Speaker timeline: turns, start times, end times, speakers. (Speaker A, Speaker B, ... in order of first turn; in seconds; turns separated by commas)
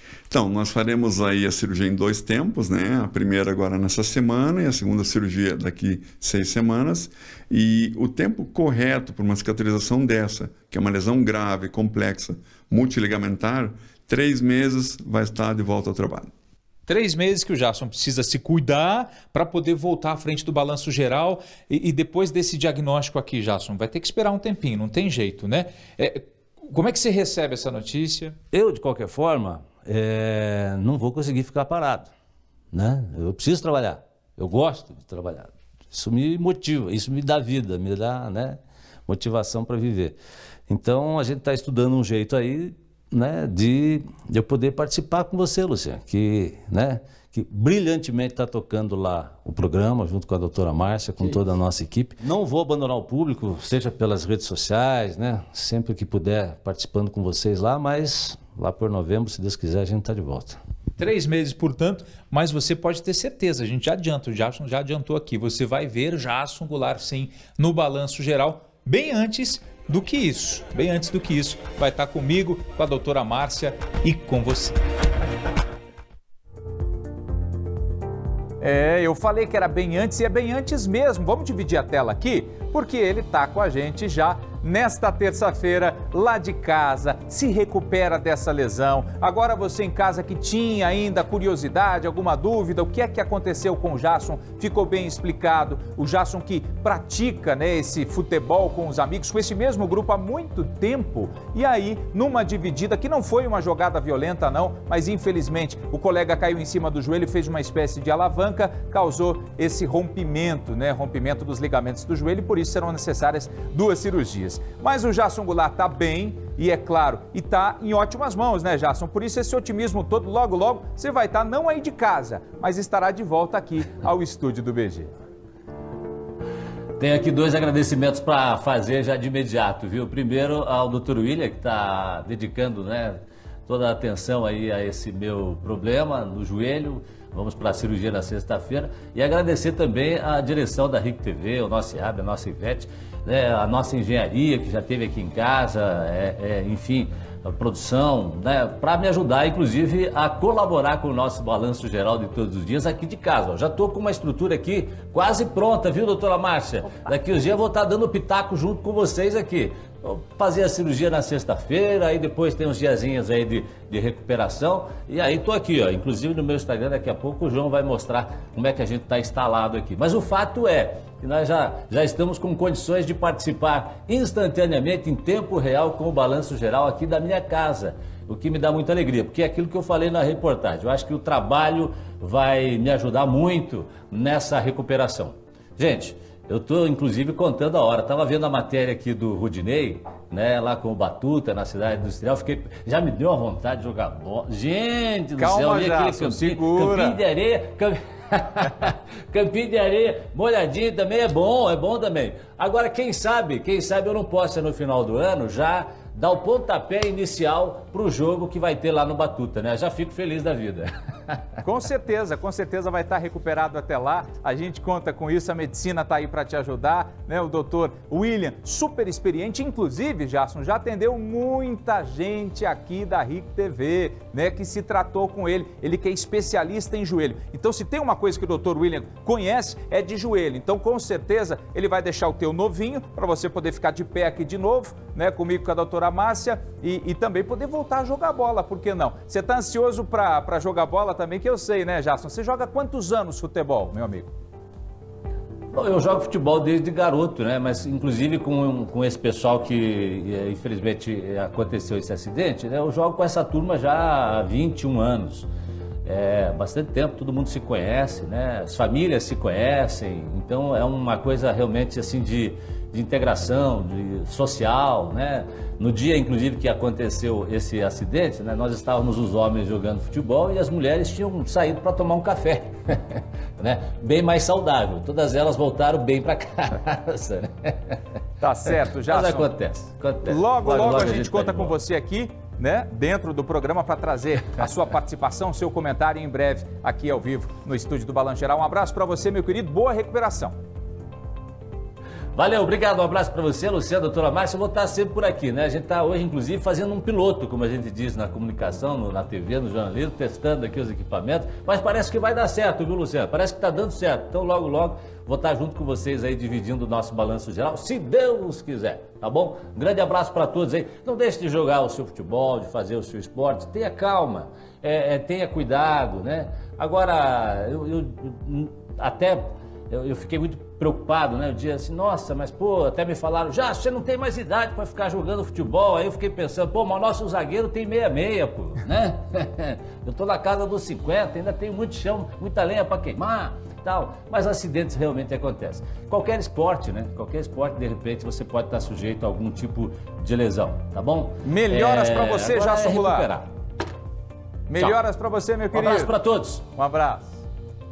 Speaker A: 0.3-16.3, Speaker B: 16.9-28.4, Speaker C: 28.5-32.1, Speaker C: 32.7-40.2, Speaker C: 40.7-60.6, Speaker B: 61.0-74.8, Speaker B: 78.6-125.1, Speaker C: 127.0-211.4, Speaker B: 195.4-197.2, Speaker B: 211.6-244.3, Speaker C: 245.7-255.5, Speaker C: 256.1-278.0, Speaker B: 278.4-279.5, Speaker C: 279.1-281.8, Speaker B: 280.2-290.5, Speaker C: 292.4-343.5, Speaker B: 341.4-343.3, Speaker B: 344.7-346.1, Speaker C: 345.7-346.6, Speaker B: 346.7-347.4